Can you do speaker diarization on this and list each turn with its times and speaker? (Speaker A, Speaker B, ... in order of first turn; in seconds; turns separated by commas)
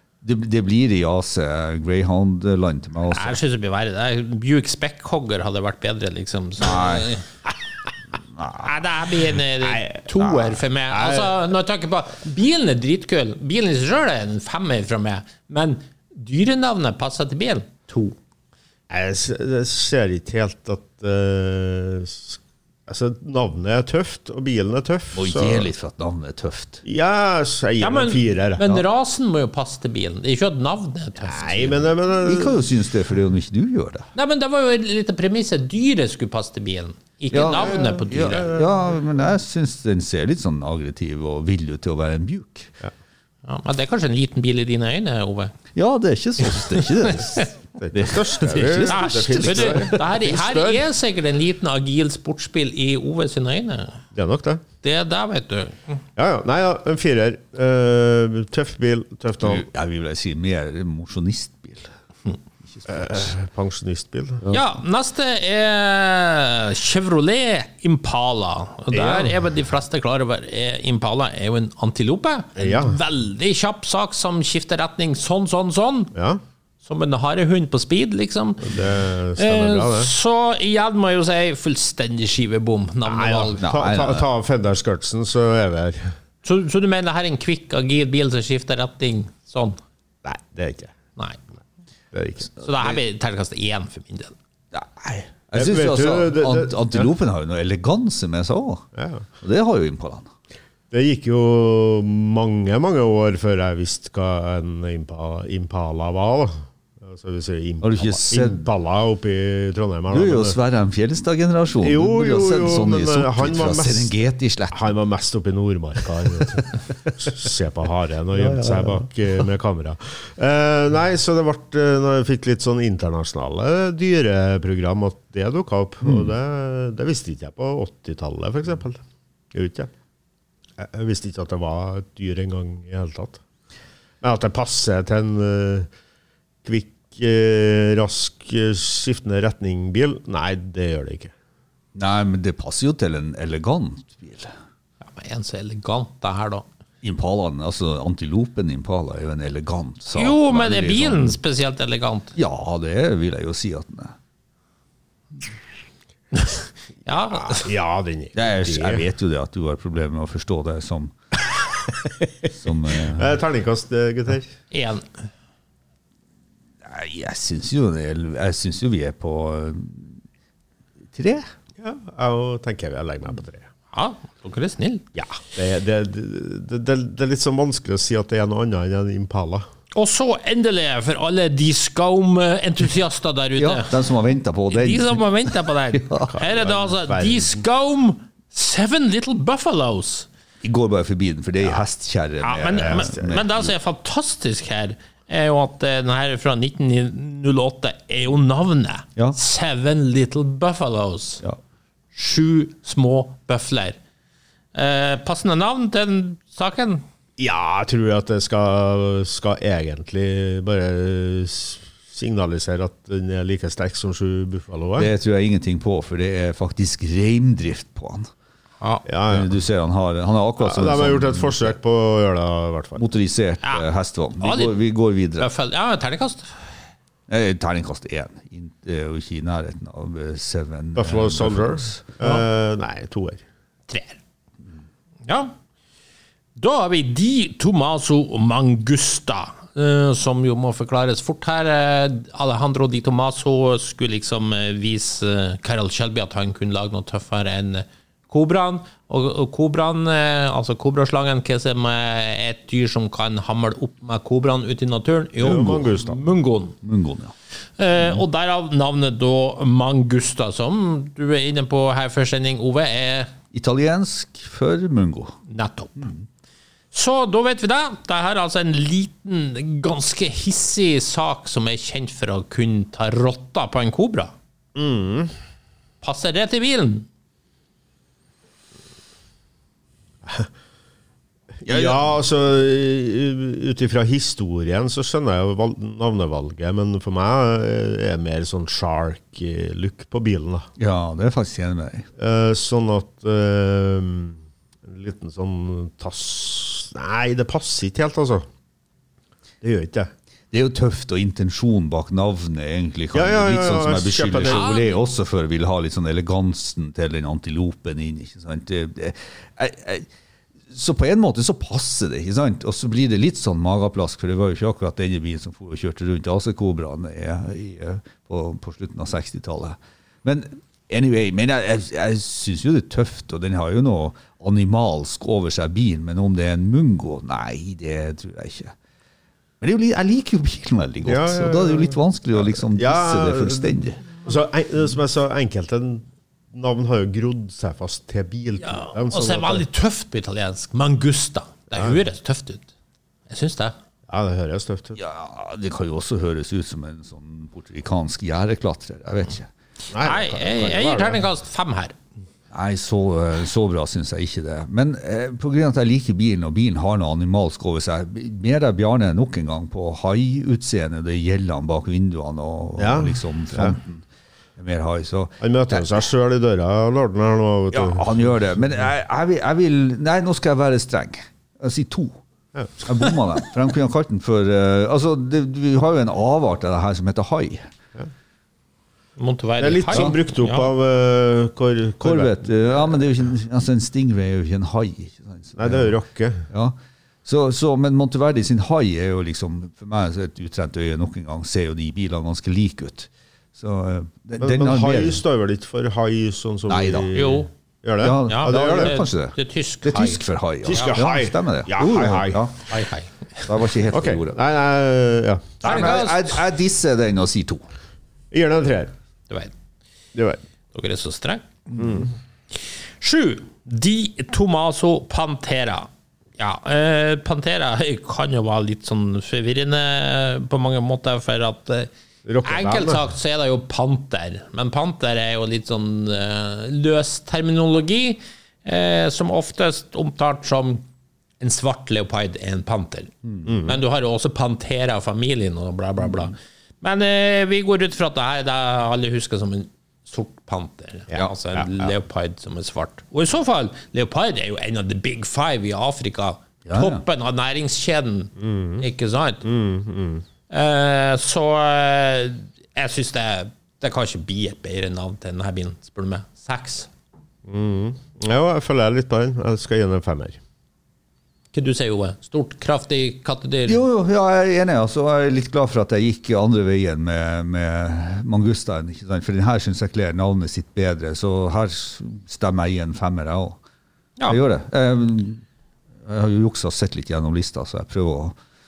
Speaker A: 0.2-3.4, Speaker B: 3.1-7.3, Speaker A: 6.6-7.1, Speaker A: 8.3-8.7, Speaker B: 8.6-18.2, Speaker C: 9.6-11.5, Speaker C: 18.9-25.7, Speaker A: 25.1-26.8, Speaker C: 26.9-28.6, Speaker B: 27.8-31.9, Speaker C: 31.2-32.6, Speaker A: 32.2-34.1, Speaker B: 34.1-38.5, Speaker A: 37.3-42.7, Speaker C: 37.3-39.1, Speaker B: 43.5-45.5, Speaker A: 45.8-50.0, Speaker B: 46.8-47.5, Speaker C: 47.8-50.9, Speaker B: 48.5-54.0, Speaker C: 54.1-54.6, Speaker B: 54.8-56.0, Speaker C: 56.2-59.6, Speaker A: 59.4-61.9, Speaker A: 62.7-63.3, Speaker C: 62.9-64.5, Speaker B: 64.5-76.1, Speaker C: 68.9-69.3, Speaker C: 72.6-73.0, Speaker C: 76.1-76.4, Speaker B: 76.8-78.7, Speaker C: 78.6-80.1, Speaker B: 79.4-83.7, Speaker C: 83.0-86.2, Speaker A: 83.6-84.3, Speaker B: 86.4-89.8, Speaker C: 90.2-90.9, Speaker C: 92.1-92.5, Speaker A: 92.5-93.0, Speaker B: 92.6-94.3, Speaker A: 94.7-98.9, Speaker C: 95.5-97.1, Speaker C: 99.0-99.2, Speaker A: 99.4-100.3, Speaker C: 100.9-110.6, Speaker A: 107.8-108.7, Speaker A: 110.1-114.9, Speaker C: 111.8-114.1, Speaker C: 114.7-129.0, Speaker A: 118.3-119.1, Speaker A: 126.0-126.3, Speaker C: 129.5-129.9, Speaker C: 130.8-133.4, Speaker C: 134.2-135.9, Speaker C: 136.6-141.3, Speaker A: 141.9-144.5, Speaker B: 145.0-146.7, Speaker A: 147.0-151.4, Speaker B: 150.1-152.3, Speaker A: 152.3-154.2, Speaker B: 156.4-157.7, Speaker C: 157.5-159.1, Speaker A: 158.3-161.1, Speaker A: 162.6-163.4, Speaker C: 163.1-164.5, Speaker B: 164.7-165.1, Speaker A: 166.8-170.2, Speaker A: 171.1-171.5, Speaker C: 171.8-173.7, Speaker B: 173.9-175.1, Speaker C: 175.2-179.7, Speaker B: 179.9-184.0, Speaker A: 183.6-186.3, Speaker B: 184.7-190.3, Speaker C: 186.3-187.6, Speaker A: 190.6-193.7, Speaker B: 192.4-201.4, Speaker C: 192.8-193.3, Speaker B: 202.1-204.0, Speaker B: 204.7-207.0, Speaker C: 207.4-215.1, Speaker A: 215.0-218.3, Speaker B: 218.8-219.1, Speaker C: 219.1-219.5, Speaker A: 219.3-221.8, Speaker C: 220.6-223.0, Speaker A: 223.0-225.5, Speaker B: 224.4-224.8, Speaker B: 225.4-226.7, Speaker A: 227.3-232.1, Speaker C: 231.0-233.4, Speaker B: 233.9-234.2, Speaker B: 235.3-235.5, Speaker B: 236.6-256.8, Speaker C: 255.4-256.2, Speaker A: 256.8-257.3, Speaker B: 257.8-263.3, Speaker A: 263.5-265.4, Speaker B: 265.5-266.1, Speaker B: 266.9-274.3, Speaker C: 274.8-275.4, Speaker B: 276.0-277.1, Speaker C: 281.6-290.7, Speaker A: 281.7-282.0, Speaker A: 290.8-292.1, Speaker C: 292.2-298.5, Speaker C: 299.6-300.1, Speaker A: 300.5-310.1, Speaker C: 303.1-304.7, Speaker B: 304.4-304.9, Speaker A: 310.7-328.7, Speaker A: 329.6-334.0, Speaker C: 331.0-339.6, Speaker B: 338.6-342.7, Speaker B: 343.3-343.7, Speaker C: 344.1-345.0, Speaker A: 345.0-349.5, Speaker C: 349.9-351.2, Speaker B: 350.0-352.0, Speaker A: 352.5-364.1, Speaker C: 362.8-363.8, Speaker A: 364.6-365.8, Speaker C: 365.4-368.7, Speaker A: 367.7-372.2, Speaker A: 372.8-377.7, Speaker B: 379.2-380.7, Speaker C: 379.6-383.0, Speaker A: 382.0-385.9, Speaker C: 385.6-386.5, Speaker A: 386.5-395.2, Speaker C: 394.4-399.0, Speaker A: 396.7-397.1, Speaker B: 397.1-397.5, Speaker A: 398.0-402.7, Speaker B: 398.3-400.2, Speaker C: 400.6-402.4, Speaker B: 400.7-401.0, Speaker B: 402.7-403.5, Speaker A: 403.4-404.4, Speaker C: 403.9-405.9, Speaker B: 405.6-406.4, Speaker A: 405.6-407.6, Speaker C: 408.3-408.9, Speaker C: 410.1-410.4, Speaker B: 410.7-411.4, Speaker C: 411.8-412.1, Speaker B: 412.6-421.9, Speaker C: 422.2-423.0, Speaker B: 422.4-430.8, Speaker B: 431.4-433.1, Speaker C: 433.5-433.8, Speaker B: 433.6-449.4, Speaker A: 446.7-447.0, Speaker C: 448.4-448.8, Speaker C: 449.4-450.2, Speaker B: 450.5-456.9, Speaker C: 457.5-460.4, Speaker B: 461.5-463.8, Speaker A: 463.7-473.6, Speaker A: 474.3-475.4, Speaker A: 476.0-478.4